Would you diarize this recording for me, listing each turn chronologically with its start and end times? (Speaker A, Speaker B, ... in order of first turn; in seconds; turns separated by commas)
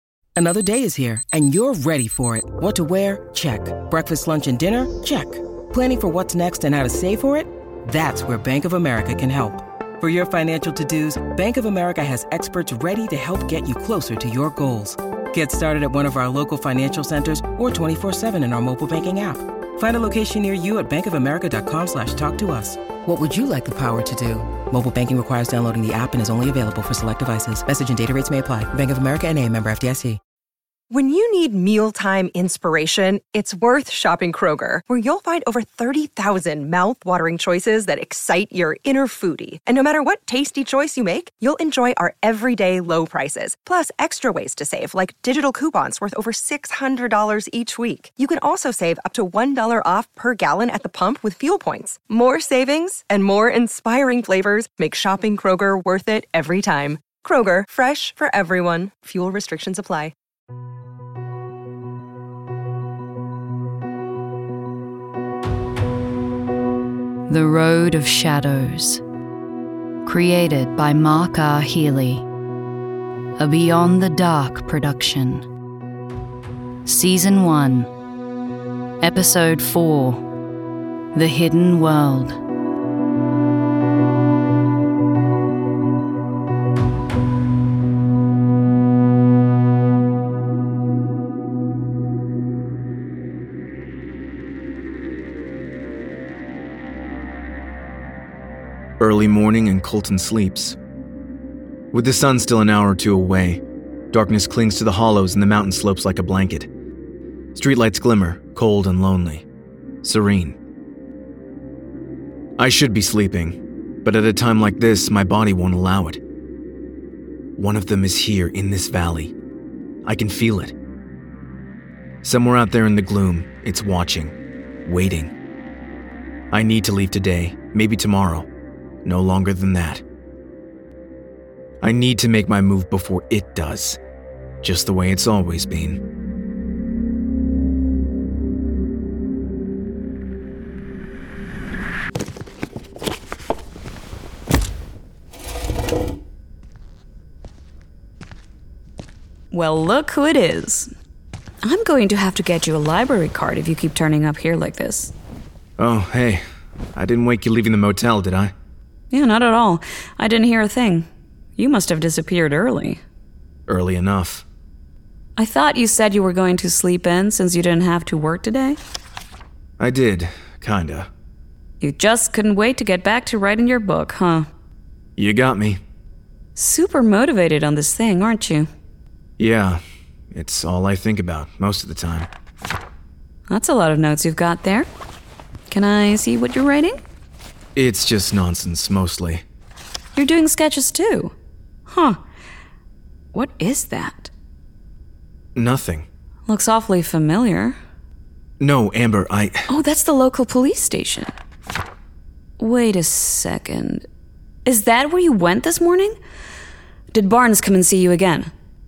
Speaker A: 0.3-30.2, Speaker B: 30.9-60.1, Speaker C: 67.3-69.0, Speaker C: 70.0-72.2, Speaker C: 73.4-75.5, Speaker C: 76.8-77.9, Speaker C: 79.0-80.3, Speaker C: 81.1-82.4, Speaker D: 99.0-100.8, Speaker D: 101.9-106.7, Speaker D: 107.5-109.4, Speaker D: 110.0-110.6, Speaker D: 112.6-116.2, Speaker D: 117.5-119.3, Speaker D: 120.0-120.7, Speaker D: 122.2-125.3, Speaker D: 126.5-128.5, Speaker D: 129.0-130.0, Speaker D: 131.8-134.0, Speaker D: 134.6-136.0, Speaker E: 149.5-150.9, Speaker E: 151.6-155.1, Speaker D: 155.8-158.5, Speaker E: 159.1-163.0, Speaker D: 163.7-164.4, Speaker E: 165.4-168.8, Speaker D: 169.8-171.1, Speaker E: 171.8-174.5, Speaker D: 175.2-175.8, Speaker E: 176.6-178.7, Speaker D: 179.4-182.3, Speaker E: 183.5-184.9, Speaker E: 185.7-187.0, Speaker D: 187.8-189.4, Speaker E: 190.2-191.3, Speaker E: 191.9-192.2, Speaker E: 193.3-194.3, Speaker D: 195.5-196.1, Speaker E: 196.5-197.8, Speaker D: 198.6-199.7, Speaker E: 199.7-201.3, Speaker E: 202.6-204.1, Speaker E: 204.6-206.2, Speaker E: 207.1-208.5